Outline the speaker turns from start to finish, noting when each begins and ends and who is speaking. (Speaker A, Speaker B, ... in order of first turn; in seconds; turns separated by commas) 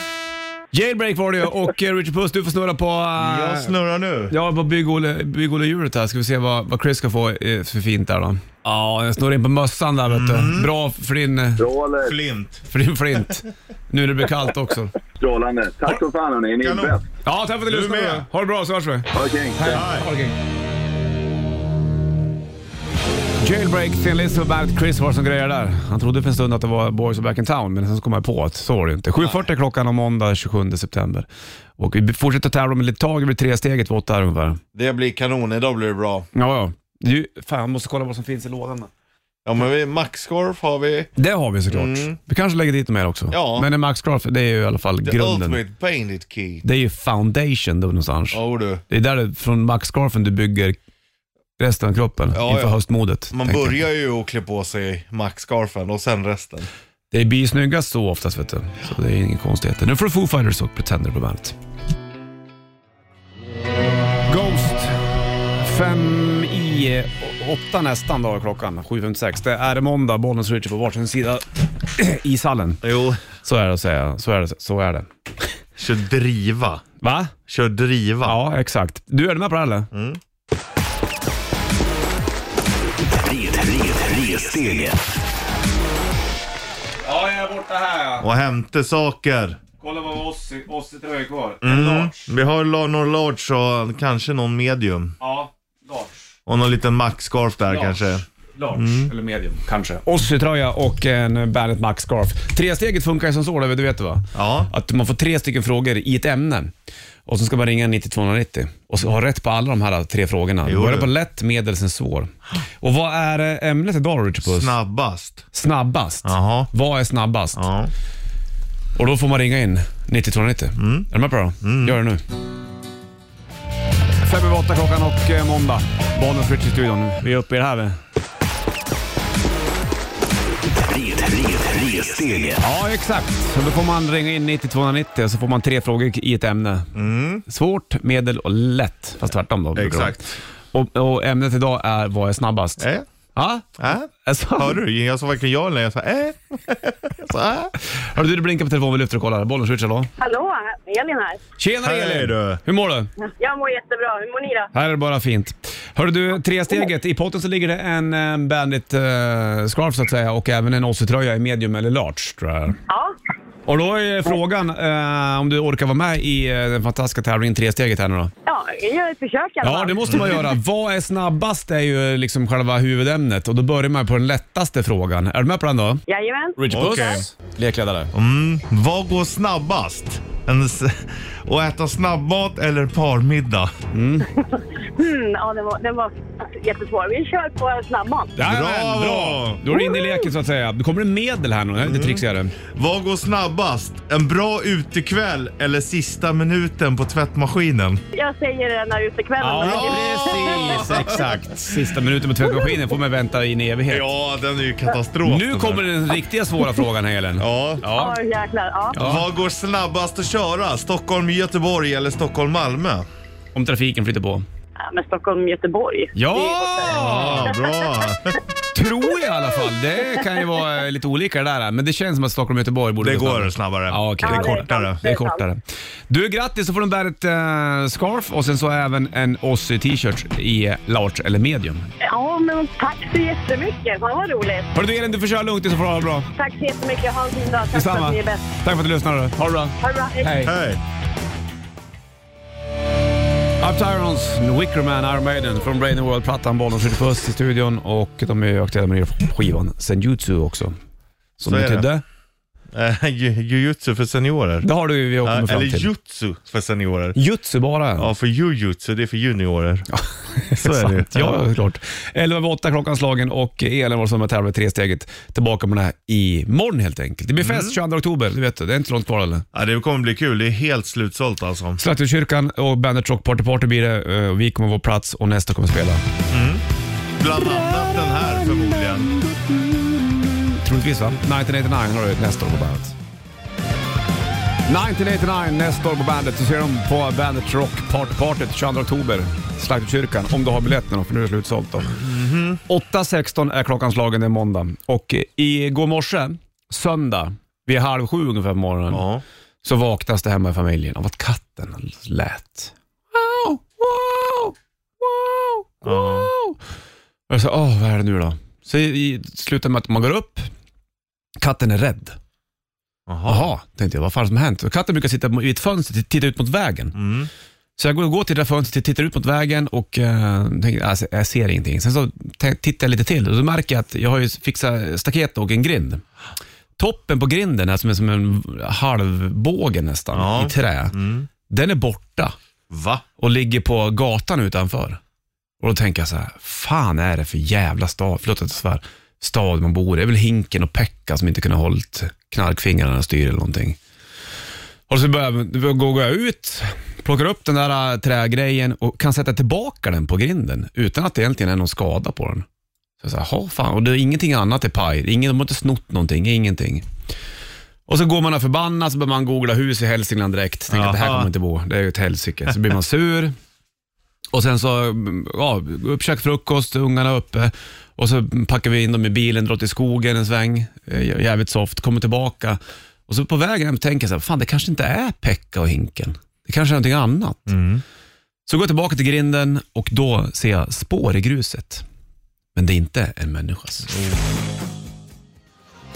Speaker A: 0.7-3.7, Speaker B: 3.2-4.3, Speaker A: 4.3-11.6, Speaker B: 10.1-10.7, Speaker C: 11.6-12.2, Speaker B: 12.0-12.6, Speaker A: 12.7-14.9, Speaker C: 15.2-17.0, Speaker B: 16.6-17.0, Speaker A: 17.2-20.4, Speaker B: 17.7-18.3, Speaker C: 19.1-19.8, Speaker B: 19.6-20.1, Speaker A: 23.4-31.3, Speaker A: 31.8-34.6, Speaker B: 34.7-36.3, Speaker A: 36.3-38.9, Speaker B: 39.4-41.1, Speaker A: 41.1-45.6, Speaker B: 41.7-42.2, Speaker B: 43.3-43.7, Speaker B: 45.0-46.6, Speaker A: 46.6-50.8, Speaker B: 48.3-48.8, Speaker A: 51.6-53.8, Speaker B: 52.3-52.8, Speaker B: 53.3-56.7, Speaker A: 57.1-61.5, Speaker A: 64.3-72.8, Speaker B: 72.8-73.2, Speaker A: 73.4-75.1, Speaker B: 75.8-76.8, Speaker A: 77.0-77.3, Speaker B: 77.5-78.4, Speaker A: 78.2-79.9, Speaker B: 79.9-80.2, Speaker D: 83.1-85.0, Speaker A: 87.0-88.3, Speaker B: 88.2-89.6, Speaker A: 89.8-92.3, Speaker B: 91.6-95.2, Speaker A: 95.2-96.3, Speaker B: 96.5-99.1, Speaker A: 97.7-98.0, Speaker A: 98.5-106.7, Speaker B: 104.3-104.7, Speaker A: 107.2-114.7, Speaker B: 110.6-111.1, Speaker B: 114.4-115.4, Speaker A: 115.5-117.6, Speaker B: 116.2-116.7, Speaker B: 117.5-117.9, Speaker A: 118.9-122.2, Speaker B: 120.8-121.1, Speaker B: 121.6-122.0, Speaker A: 124.2-128.0, Speaker D: 130.7-132.6, Speaker A: 132.6-136.9, Speaker B: 136.9-137.4, Speaker A: 137.4-144.8, Speaker B: 139.8-140.3, Speaker B: 142.8-143.1, Speaker B: 143.8-147.7, Speaker A: 147.8-150.1, Speaker E: 150.2-151.4, Speaker A: 151.6-153.1, Speaker B: 151.8-152.6, Speaker E: 153.4-154.7, Speaker A: 154.7-162.8, Speaker E: 162.9-163.1, Speaker A: 163.7-168.3, Speaker E: 168.4-170.4, Speaker A: 169.6-176.0, Speaker B: 170.1-170.4, Speaker E: 176.1-177.1, Speaker A: 176.6-178.1, Speaker B: 176.7-177.2, Speaker B: 178.1-183.7, Speaker A: 183.9-184.3, Speaker E: 184.3-188.3, Speaker A: 188.3-192.5, Speaker B: 188.4-189.6, Speaker E: 189.7-190.3, Speaker B: 191.8-198.0, Speaker E: 198.1-201.2, Speaker A: 199.4-204.1, Speaker B: 199.6-201.3, Speaker E: 202.5-202.8, Speaker B: 203.9-205.9, Speaker A: 205.2-208.2, Speaker B: 207.4-207.8, Speaker E: 207.9-209.0, Speaker A: 208.9-209.2, Speaker B: 209.0-213.1, Speaker A: 213.5-214.4, Speaker E: 214.8-218.1, Speaker A: 216.1-217.5, Speaker B: 216.8-218.4, Speaker A: 218.7-231.9, Speaker B: 223.0-225.0, Speaker E: 224.2-225.4, Speaker E: 232.0-234.7, Speaker A: 234.7-236.3, Speaker E: 236.3-238.4, Speaker A: 237.7-240.5, Speaker E: 239.8-240.4, Speaker B: 240.4-240.8, Speaker A: 243.6-250.8, Speaker A: 251.4-252.0, Speaker B: 251.4-251.9, Speaker B: 252.7-254.7, Speaker A: 254.6-255.9, Speaker B: 255.2-257.2, Speaker A: 257.1-258.1, Speaker B: 258.0-259.9, Speaker A: 259.9-269.4, Speaker B: 260.5-261.4, Speaker B: 267.4-267.8, Speaker B: 269.5-271.8, Speaker A: 271.8-276.0, Speaker B: 276.3-276.6, Speaker B: 277.2-279.2, Speaker A: 279.8-282.9, Speaker A: 284.7-292.0, Speaker B: 291.9-292.6, Speaker A: 292.6-299.0, Speaker B: 298.9-299.2, Speaker A: 299.6-306.6, Speaker B: 305.8-306.3, Speaker A: 307.3-310.5, Speaker A: 311.4-312.2, Speaker B: 313.1-313.5, Speaker A: 313.2-317.0, Speaker B: 316.9-317.3, Speaker A: 317.8-326.0, Speaker A: 326.8-330.9, Speaker B: 330.1-331.3, Speaker A: 331.5-332.4, Speaker B: 332.7-333.0, Speaker A: 333.2-335.0, Speaker A: 335.6-343.8, Speaker A: 344.9-352.4, Speaker A: 353.0-356.9, Speaker A: 357.9-363.3, Speaker B: 360.7-361.3, Speaker A: 364.3-377.5, Speaker B: 377.5-377.8, Speaker A: 378.4-381.8, Speaker A: 382.5-383.9, Speaker B: 383.9-384.2